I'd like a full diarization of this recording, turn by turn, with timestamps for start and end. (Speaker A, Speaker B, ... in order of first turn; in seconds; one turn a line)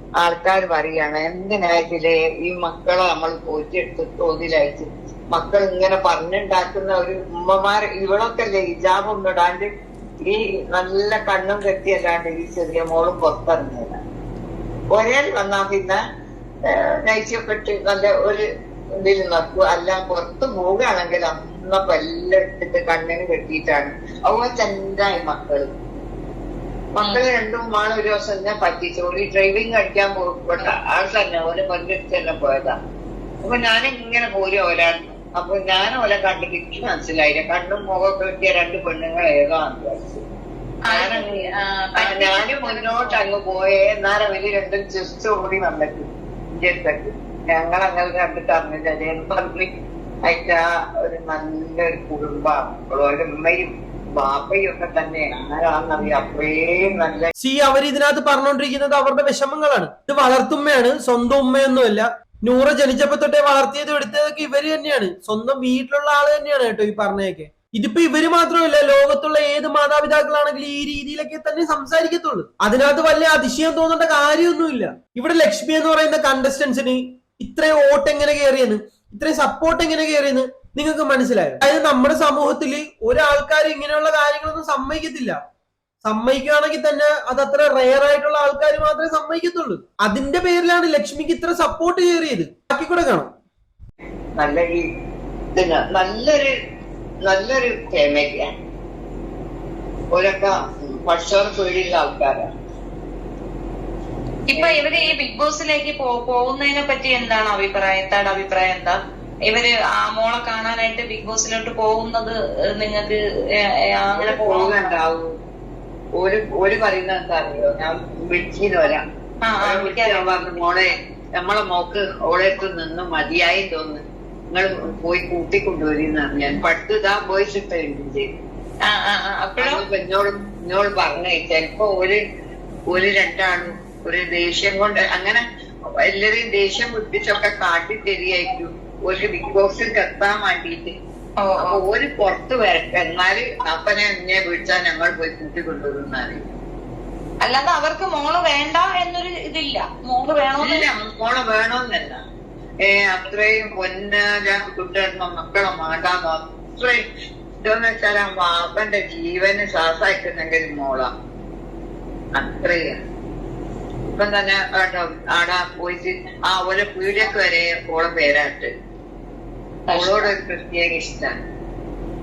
Speaker A: 0.2-9.7
Speaker A: 10.2-14.0
Speaker A: 14.9-16.0
Speaker A: 16.7-18.4
Speaker A: 19.0-25.7
Speaker A: 26.9-32.8
Speaker A: 33.4-40.2
Speaker B: 40.9-43.2
Speaker A: 40.9-49.7
Speaker A: 50.2-57.3
Speaker C: 57.4-85.4
Speaker C: 86.0-93.3
Speaker A: 94.4-94.9
Speaker A: 95.5-96.5
Speaker A: 97.2-98.5
Speaker A: 100.1-102.5
Speaker B: 104.5-113.2
Speaker A: 104.5-105.1
Speaker B: 114.0-114.9
Speaker A: 114.2-115.3
Speaker A: 116.2-119.0
Speaker B: 119.4-120.7
Speaker A: 119.6-128.3
Speaker B: 128.8-129.8
Speaker A: 129.6-132.2
Speaker A: 132.9-135.4
Speaker A: 136.0-140.9
Speaker B: 141.4-141.8
Speaker A: 141.6-146.5
Speaker B: 147.4-150.8
Speaker A: 150.6-152.2
Speaker A: 152.8-157.0
Speaker A: 157.6-161.1
Speaker A: 162.3-163.0
Speaker A: 164.1-168.7
Speaker B: 169.9-170.3
Speaker A: 169.9-171.3